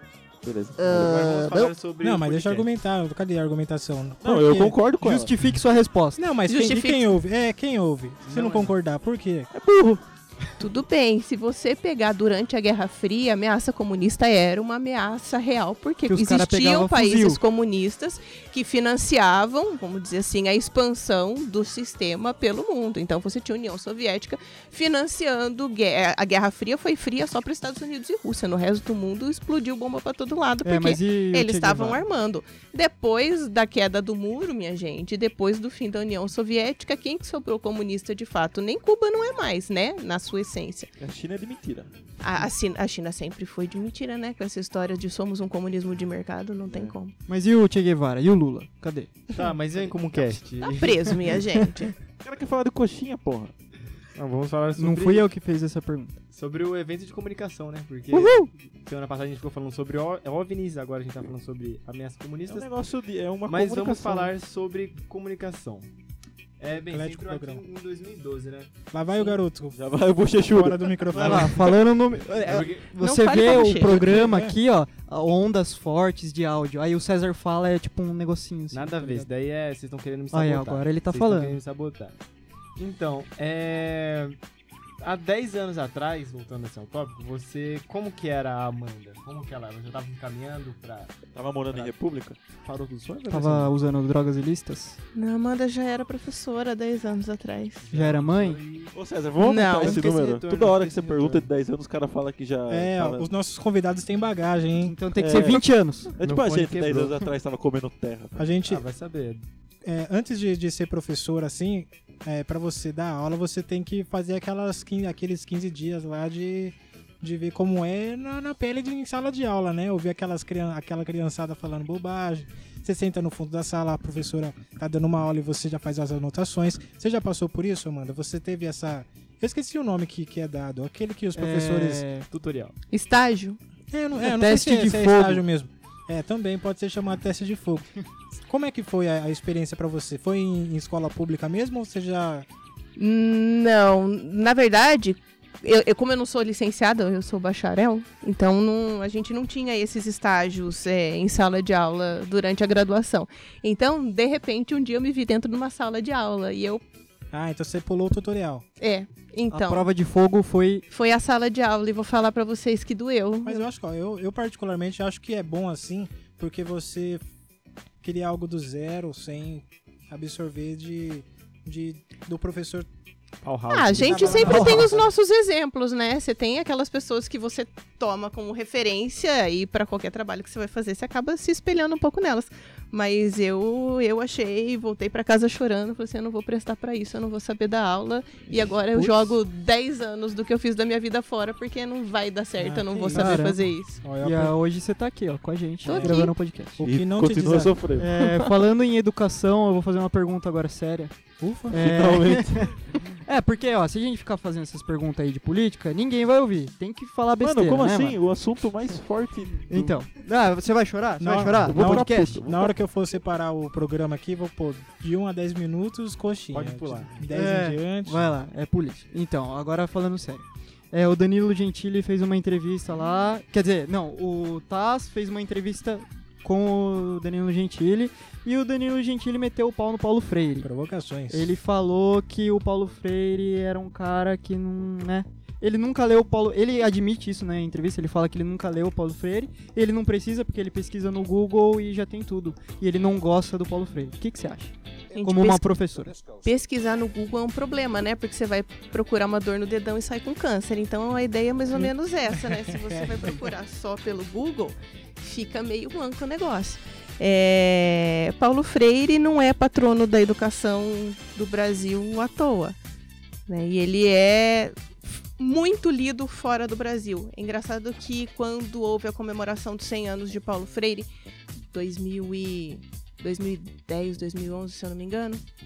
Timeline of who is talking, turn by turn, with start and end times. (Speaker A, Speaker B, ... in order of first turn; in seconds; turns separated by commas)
Speaker A: 0.4-1.7, Speaker B: 0.8-2.7, Speaker C: 2.0-4.8, Speaker A: 4.2-5.3, Speaker D: 5.0-6.2, Speaker C: 6.2-9.5, Speaker E: 6.5-7.1, Speaker B: 8.3-8.7, Speaker A: 9.5-10.0, Speaker E: 10.6-40.9, Speaker D: 16.1-17.4, Speaker D: 30.6-32.0, Speaker A: 41.0-41.9, Speaker E: 42.2-47.1, Speaker A: 46.7-47.0, Speaker D: 47.3-49.2, Speaker B: 49.3-51.2, Speaker E: 50.6-51.9, Speaker A: 52.2-53.5, Speaker B: 54.1-55.3, Speaker D: 54.8-56.2, Speaker B: 56.3-62.7, Speaker A: 62.5-64.3, Speaker B: 63.5-65.9, Speaker B: 66.6-68.7, Speaker C: 66.9-67.6, Speaker C: 68.9-69.8, Speaker A: 69.7-71.6, Speaker C: 70.5-71.7, Speaker D: 71.1-79.3, Speaker B: 72.4-73.0, Speaker E: 72.9-74.2, Speaker C: 74.0-74.6, Speaker B: 78.7-82.2, Speaker D: 80.3-81.6, Speaker B: 82.8-84.4, Speaker B: 85.0-91.2, Speaker A: 91.3-92.4, Speaker B: 92.6-93.7, Speaker D: 93.3-95.0, Speaker E: 95.2-97.8, Speaker B: 97.8-99.0, Speaker D: 97.9-98.6, Speaker A: 98.9-103.3, Speaker E: 99.4-100.0, Speaker B: 99.8-101.5, Speaker C: 102.7-105.4, Speaker D: 104.8-106.1, Speaker A: 105.2-108.5, Speaker B: 106.2-107.3, Speaker C: 108.4-108.8, Speaker B: 108.7-109.4, Speaker C: 109.8-132.1, Speaker D: 131.3-132.3, Speaker B: 132.3-132.8, Speaker E: 132.9-133.6, Speaker C: 133.9-137.9, Speaker D: 134.2-135.4, Speaker C: 138.5-142.5, Speaker E: 143.0-156.8, Speaker C: 157.3-158.7, Speaker E: 158.8-159.9, Speaker D: 159.5-160.9, Speaker E: 160.9-163.7, Speaker C: 163.4-167.2, Speaker C: 168.0-172.9, Speaker B: 173.4-175.1, Speaker E: 173.7-194.0, Speaker C: 174.0-174.7, Speaker D: 174.4-174.9, Speaker D: 188.9-189.4, Speaker C: 192.6-194.6, Speaker D: 193.1-193.6, Speaker D: 194.2-196.8, Speaker E: 195.8-196.3, Speaker C: 195.9-196.2, Speaker C: 196.8-197.8, Speaker A: 196.8-198.4, Speaker D: 198.0-208.2, Speaker C: 201.4-202.1, Speaker A: 201.7-202.8, Speaker A: 207.4-210.0, Speaker D: 209.7-212.4, Speaker C: 211.2-218.3, Speaker A: 211.6-212.8, Speaker B: 216.5-217.3, Speaker D: 217.3-230.7, Speaker C: 230.6-231.5, Speaker D: 231.3-246.2, Speaker E: 245.1-245.7, Speaker E: 246.3-262.8, Speaker C: 252.8-253.4, Speaker E: 263.5-264.8, Speaker E: 265.4-271.1, Speaker E: 271.7-275.4